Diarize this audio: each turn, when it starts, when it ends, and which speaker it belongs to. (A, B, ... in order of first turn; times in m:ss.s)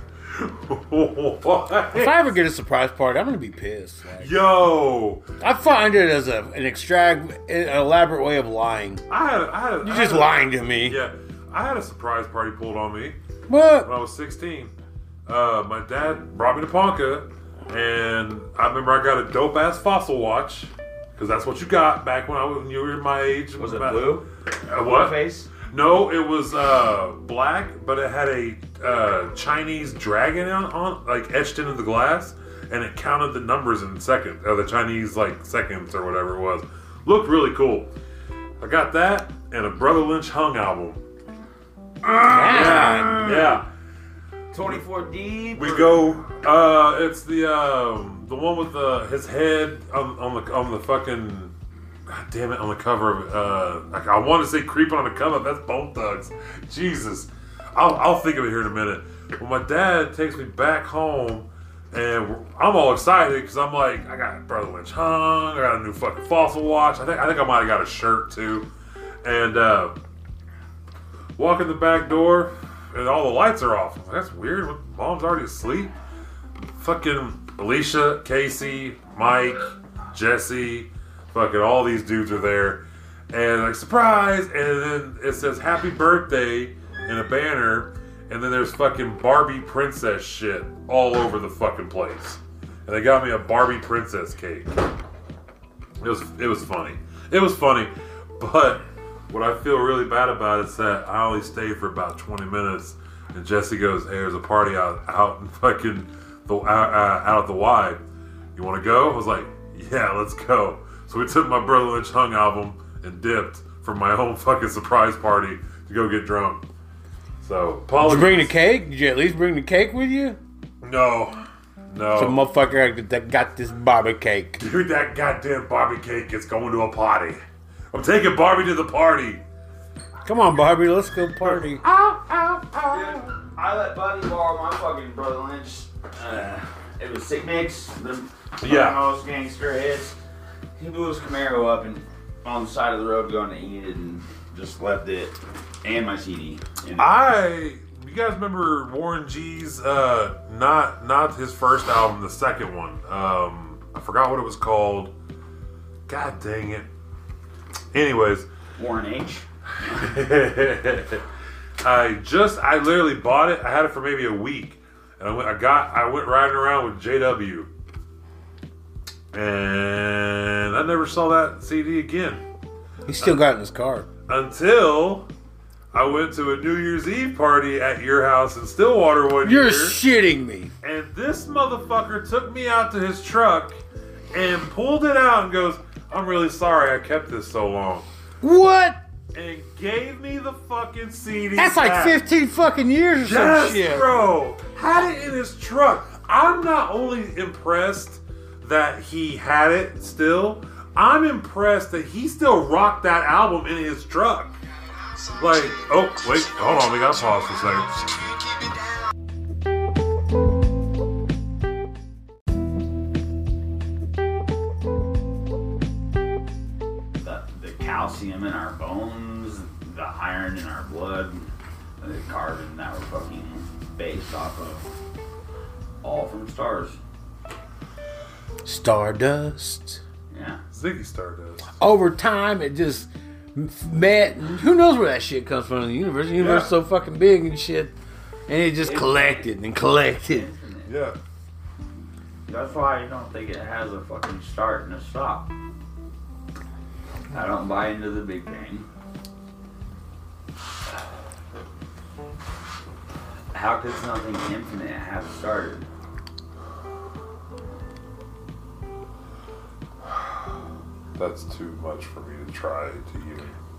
0:00.3-0:02.2 A
0:01.9-0:04.4 B
0:04.2-0:05.2 A
0:05.4-0:09.0 B
0:09.1-0:13.2 A
0:09.8-0:11.0 B
0:13.5-0:13.9 B
0:13.8-0:14.7 A
0:15.3-0:37.9 A
0:23.6-0:25.5 C
0:38.6-0:41.0 A
0:42.0-0:43.6 C
0:42.3-0:43.3 B
0:42.4-0:43.6 A
0:44.5-0:46.1 C
0:45.5-0:51.5 A
0:52.0-1:08.7 A
1:09.2-1:09.9 A
1:11.4-1:15.9 A
1:16.8-1:34.7 A
1:36.0-1:48.0 A
1:48.5-1:56.6 A
1:57.4-1:58.5 A
1:58.0-2:00.4 B
2:00.8-2:02.4 A
2:02.2-2:04.6 B
2:04.6-2:07.4 A
2:07.9-2:09.4 A
2:10.2-2:11.8 B
2:11.4-2:13.3 A
2:12.9-2:20.2 C
2:18.6-2:19.0 A
2:20.8-2:27.1 C
2:27.0-2:35.1 A
2:36.1-2:36.9 A
2:37.9-2:38.5 A
2:38.8-2:40.1 C
2:39.8-2:41.2 A
2:41.8-2:47.7 A
2:49.3-2:52.4 A
2:53.1-2:54.1 B
2:54.3-2:55.3 A
2:55.9-3:00.0 A
2:59.4-3:00.7 B
3:00.8-3:03.8 A
3:04.3-3:08.1 A
3:08.4-3:09.0 B
3:09.3-3:12.2 A
3:11.6-3:14.1 B
3:13.2-3:24.6 A
3:25.2-3:28.3 A
3:37.2-3:44.9 C
3:46.0-3:47.0 C
3:48.6-3:50.0 B
3:50.3-3:50.6 C
3:50.7-3:51.7 A
3:51.8-3:57.9 B
3:56.4-3:56.7 A
3:58.5-4:00.5 B
3:58.8-3:59.5 C
4:00.2-4:00.9 C
4:00.8-4:01.2 A
4:02.5-4:05.5 C
4:07.3-4:08.9 C
4:13.5-4:15.8 C
4:21.2-4:23.5 A